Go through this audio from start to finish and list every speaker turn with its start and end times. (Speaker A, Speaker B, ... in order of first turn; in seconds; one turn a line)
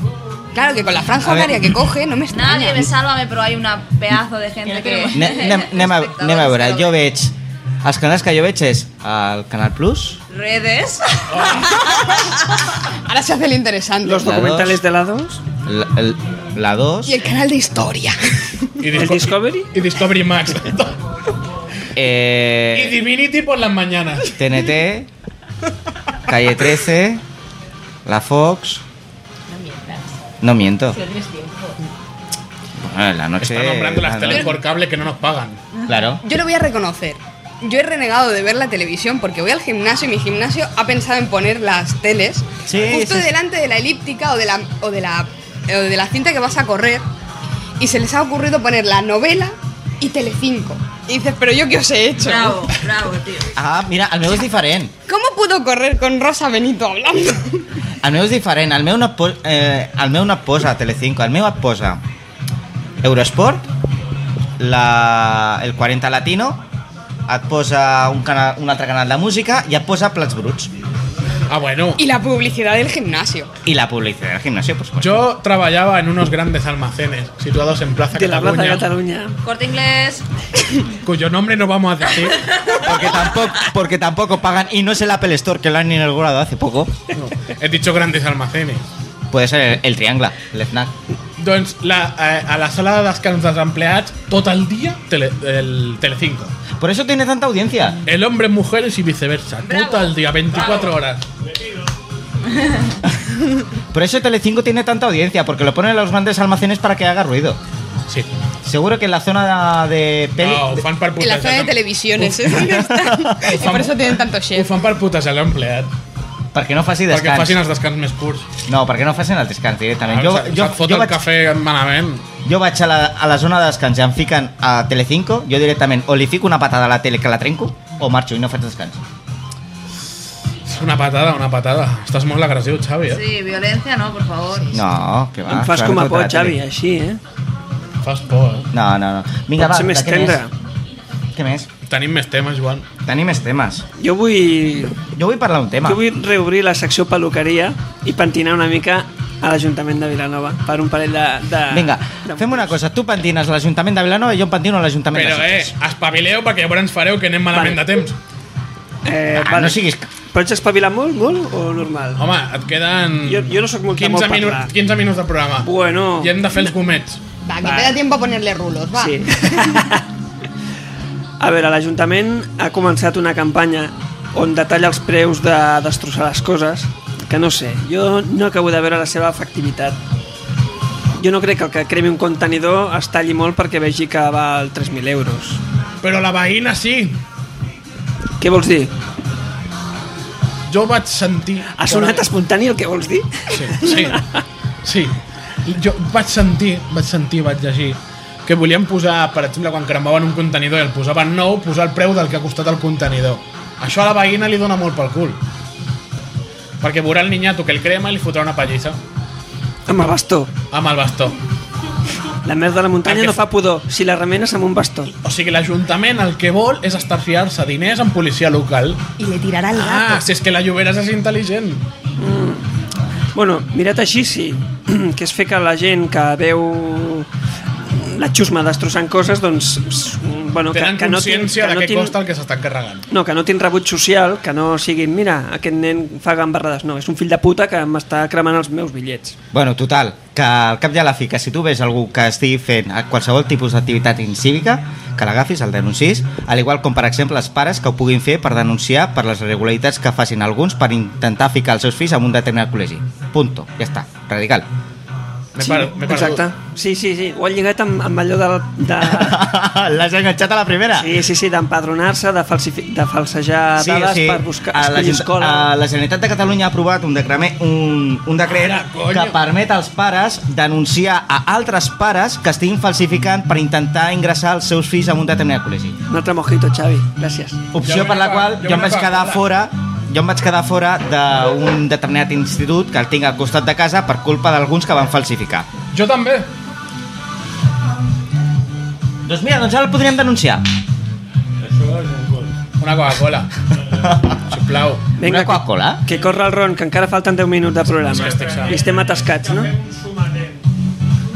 Speaker A: 0.5-2.9
Speaker B: 1.2-1.5
Speaker C: 2.3-7.0
Speaker B: 4.7-10.2
Speaker C: 10.3-12.8
Speaker D: 11.3-11.8
Speaker A: 12.9-14.4
Speaker E: 14.0-15.4
Speaker B: 14.2-14.8
Speaker B: 15.7-17.2
Speaker A: 17.1-18.7
Speaker D: 18.8-21.0
Speaker E: 18.9-19.7
Speaker B: 22.0-23.0
Speaker D: 22.7-24.4
Speaker B: 24.4-25.1
Speaker B: 26.2-27.2
Speaker B: 28.1-28.8
Speaker B: 30.4-31.0
Speaker B: 32.8-34.5
Speaker D: 33.4-35.6
Speaker B: 35.9-36.2
Speaker A: 36.2-47.0
Speaker B: 42.7-43.3
Speaker A: 47.8-52.7
Speaker C: 52.2-53.5
Speaker B: 53.5-54.9
Speaker A: 55.1-57.6
Speaker B: 58.0-62.0
Speaker B: 63.0-63.7
Speaker B: 64.6-66.6
Speaker B: 67.3-70.7
Speaker D: 71.5-72.0
Speaker A: 72.0-73.5
Speaker B: 73.7-75.3
Speaker D: 75.0-78.9
Speaker E: 78.1-79.4
Speaker C: 79.4-80.2
Speaker D: 81.0-82.5
Speaker C: 82.4-83.5
Speaker B: 82.8-86.9
Speaker D: 87.2-88.8
Speaker B: 89.3-90.9
Speaker D: 91.4-96.5
Speaker B: 96.8-98.0
Speaker D: 98.0-101.2
Speaker C: 99.7-100.9
Speaker F: 101.4-101.9
Speaker C: 102.6-103.0
Speaker B: 103.9-107.6
Speaker B: 108.6-110.8
Speaker D: 110.4-112.6
Speaker A: 111.2-114.7
Speaker B: 112.7-113.4
Speaker D: 113.4-115.9
Speaker B: 116.5-117.6
Speaker D: 117.1-118.5
Speaker B: 118.7-121.2
Speaker D: 120.1-122.2
Speaker B: 122.5-129.0
Speaker D: 130.7-133.2
Speaker C: 133.1-134.8
Speaker B: 134.7-136.6
Speaker E: 135.5-137.2
Speaker D: 138.0-138.7
Speaker B: 138.7-140.4
Speaker E: 139.6-140.5
Speaker B: 141.3-141.7
Speaker D: 141.9-142.9
Speaker B: 143.1-143.8
Speaker E: 144.0-145.0
Speaker B: 145.2-146.0
Speaker E: 145.8-152.8
Speaker B: 151.7-155.7
Speaker D: 155.1-158.2
Speaker E: 157.5-157.8
Speaker E: 159.1-159.8
Speaker B: 159.3-160.1
Speaker E: 160.3-162.2
Speaker D: 162.2-167.2
Speaker E: 163.2-164.7
Speaker E: 165.6-166.4
Speaker A: 167.4-169.6
Speaker E: 167.6-168.0
Speaker E: 169.0-170.1
Speaker E: 171.4-180.0
Speaker E: 181.2-185.6
Speaker D: 186.0-187.2
Speaker E: 188.4-188.9
Speaker D: 190.7-192.3
Speaker E: 191.7-194.4
Speaker D: 193.5-194.2
Speaker D: 194.8-205.4
Speaker D: 206.8-209.0
Speaker E: 209.9-210.5
Speaker D: 210.7-211.4
Speaker E: 212.4-215.1
Speaker D: 213.1-213.4
Speaker D: 215.2-219.0
Speaker A: 219.2-220.2
Speaker D: 219.7-221.8
Speaker E: 222.2-222.7
Speaker E: 223.3-227.3
Speaker E: 227.9-232.2
Speaker D: 230.7-233.1
Speaker E: 233.1-239.4
Speaker B: 239.5-254.7
Speaker D: 255.6-256.4
Speaker E: 255.6-259.5
Speaker B: 259.0-261.2
Speaker E: 261.0-265.7
Speaker B: 263.8-276.0
Speaker D: 268.5-269.4
Speaker E: 276.1-277.6
Speaker B: 277.7-285.7
Speaker D: 277.8-279.4
Speaker D: 285.9-286.5
Speaker B: 289.2-290.6
Speaker F: 291.6-292.6
Speaker D: 292.8-293.6
Speaker B: 294.0-294.4
Speaker D: 294.4-295.1
Speaker E: 295.2-299.7
Speaker B: 295.2-296.0
Speaker F: 296.1-296.5
Speaker F: 298.0-300.7
Speaker D: 298.1-298.8